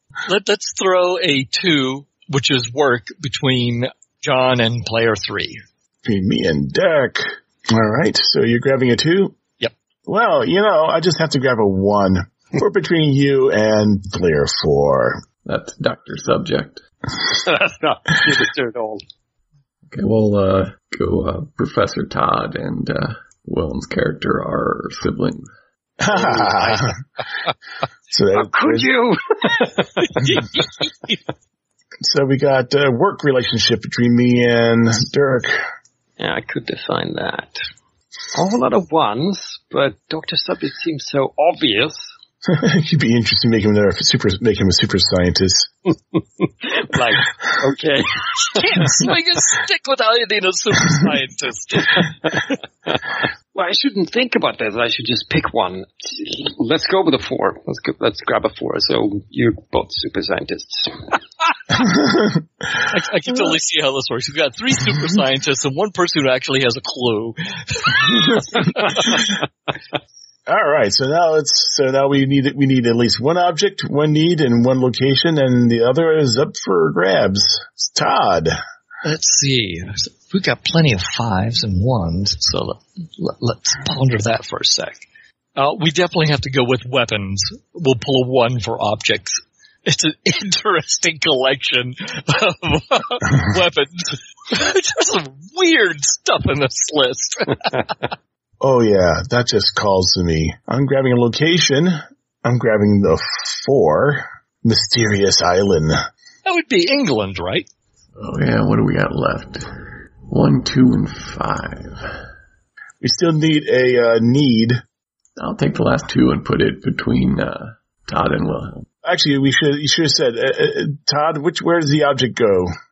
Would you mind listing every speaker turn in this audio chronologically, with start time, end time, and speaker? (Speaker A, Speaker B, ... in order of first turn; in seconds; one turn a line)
Speaker A: 0.2-5.6
Speaker B: 6.0-9.4
Speaker B: 10.1-15.2
Speaker C: 15.4-16.8
Speaker D: 17.3-19.0
Speaker C: 19.9-25.5
Speaker B: 26.0-27.0
Speaker B: 28.1-28.9
Speaker D: 28.3-30.2
Speaker A: 30.1-31.2
Speaker B: 32.0-35.6
Speaker D: 36.2-37.6
Speaker D: 38.3-42.1
Speaker B: 42.5-45.7
Speaker D: 46.6-48.9
Speaker A: 48.5-52.1
Speaker D: 52.9-61.1
Speaker B: 61.9-62.4
Speaker A: 62.9-69.2
Speaker B: 70.5-78.6
Speaker A: 79.0-85.0
Speaker A: 85.6-97.7
Speaker B: 98.6-106.0
Speaker A: 106.5-107.7
Speaker C: 108.2-109.7
Speaker C: 110.3-112.1
Speaker B: 113.0-114.8
Speaker C: 115.4-118.9
Speaker B: 119.0-122.7